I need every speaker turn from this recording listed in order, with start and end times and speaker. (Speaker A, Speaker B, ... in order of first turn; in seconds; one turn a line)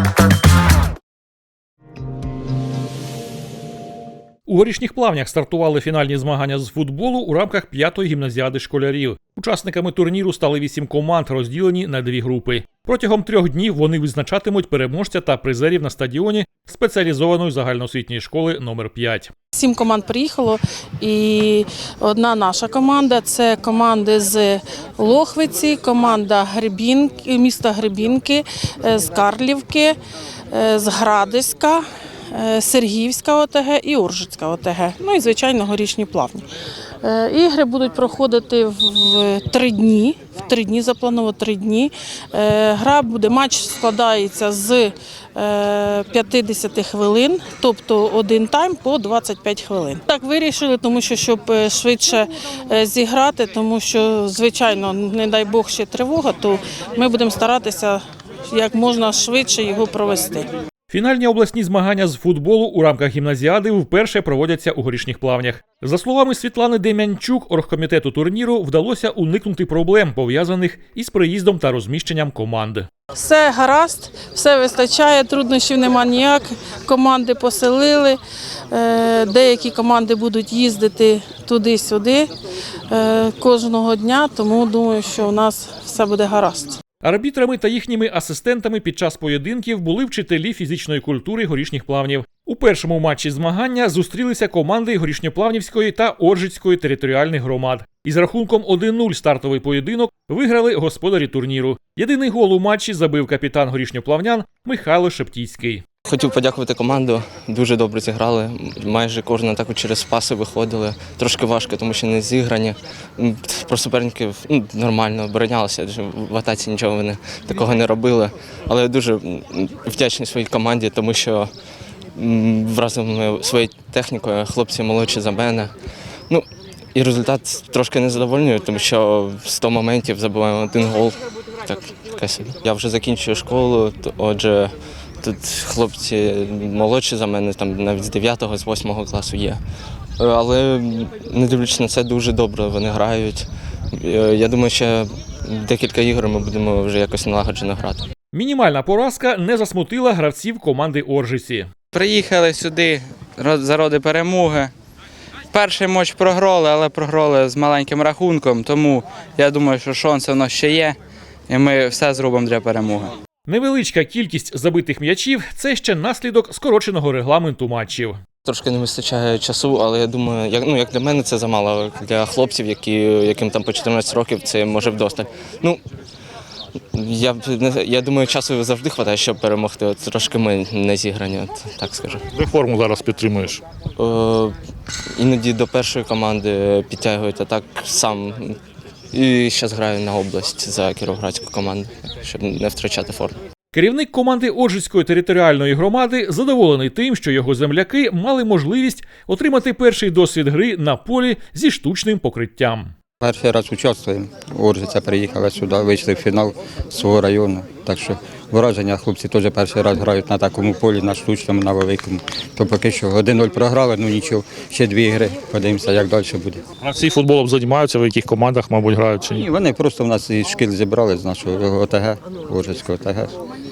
Speaker A: 4.5-19.3
Speaker B: 19.5-30.0
Speaker B: 30.5-36.5
Speaker B: 37.0-60.5
Speaker A: 60.9-72.9
Speaker B: 73.1-78.2
Speaker B: 78.7-82.3
Speaker B: 82.9-86.8
Speaker A: 87.0-105.8
Speaker C: 106.0-121.5
Speaker C: 122.1-125.7
Speaker C: 126.3-139.6
Speaker C: 140.2-148.1
Speaker A: 148.3-151.7
Speaker D: 151.9-154.7
Speaker D: 155.5-160.9
Speaker D: 161.5-163.1
Speaker A: 163.5-168.2
Speaker C: 168.4-175.8
Speaker C: 176.9-182.3
Speaker E: 182.5-183.3
Speaker A: 183.1-183.6
Speaker C: 184.0-184.6
Speaker C: 185.2-188.6
Speaker C: 189.1-193.4
Speaker A: 193.7-202.9
Speaker F: 203.2-216.6
Speaker E: 216.9-219.2
Speaker A: 218.1-219.0
Speaker F: 219.3-223.3